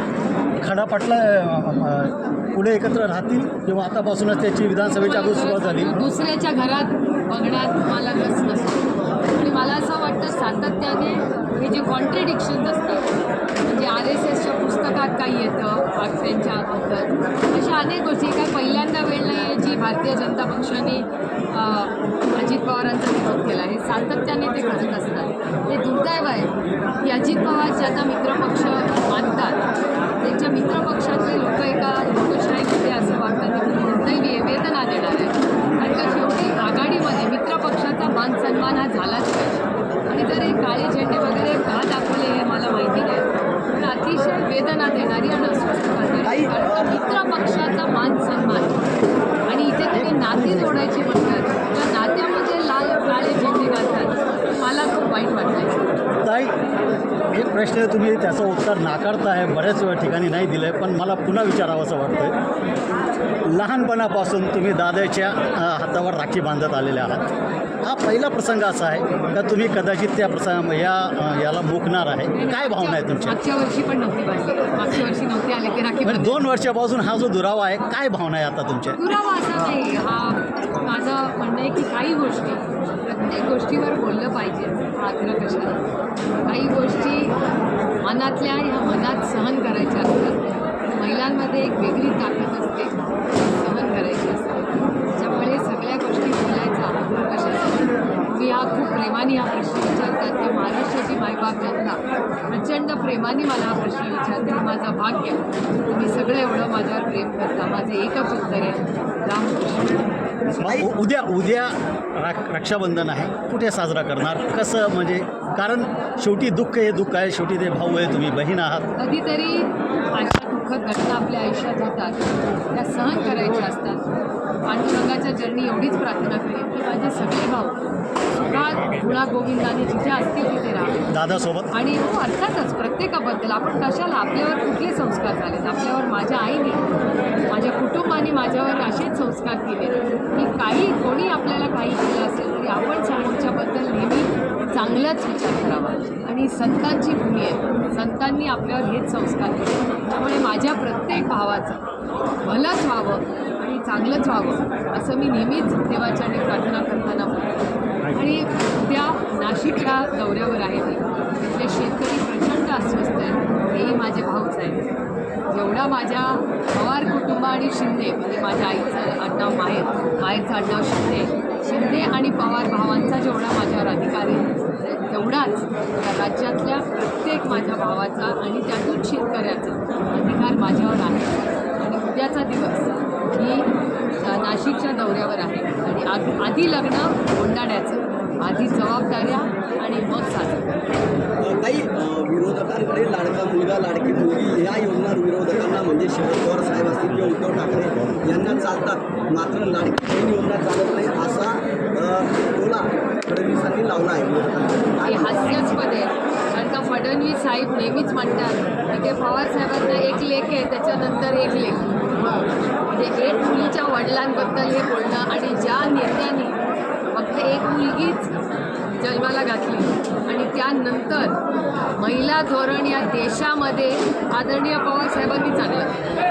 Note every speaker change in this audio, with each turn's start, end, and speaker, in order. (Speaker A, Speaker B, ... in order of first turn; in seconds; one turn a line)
Speaker A: 0.6-5.9
Speaker B: 5.0-13.1
Speaker B: 13.6-29.6
Speaker B: 30.2-48.8
Speaker C: 46.2-47.0
Speaker B: 49.5-55.9
Speaker A: 49.9-50.9
Speaker A: 56.2-56.5
Speaker A: 57.3-62.4
Speaker A: 63.5-67.2
Speaker A: 67.8-73.4
Speaker B: 72.3-76.4
Speaker A: 76.0-79.0
Speaker B: 79.0-85.8
Speaker B: 86.5-87.3
Speaker B: 88.0-110.1
Speaker C: 110.6-111.0
Speaker A: 110.6-118.9
Speaker B: 119.0-124.0
Speaker B: 124.7-127.8
Speaker B: 128.5-131.1
Speaker A: 131.1-131.7
Speaker B: 131.7-136.8
Speaker B: 137.5-151.8
Speaker B: 152.4-157.6
Speaker B: 158.1-164.9
Speaker B: 165.5-190.7
Speaker C: 191.4-205.7
Speaker B: 205.0-216.6
Speaker B: 217.1-218.3
Speaker B: 219.0-221.4
Speaker B: 222.0-226.0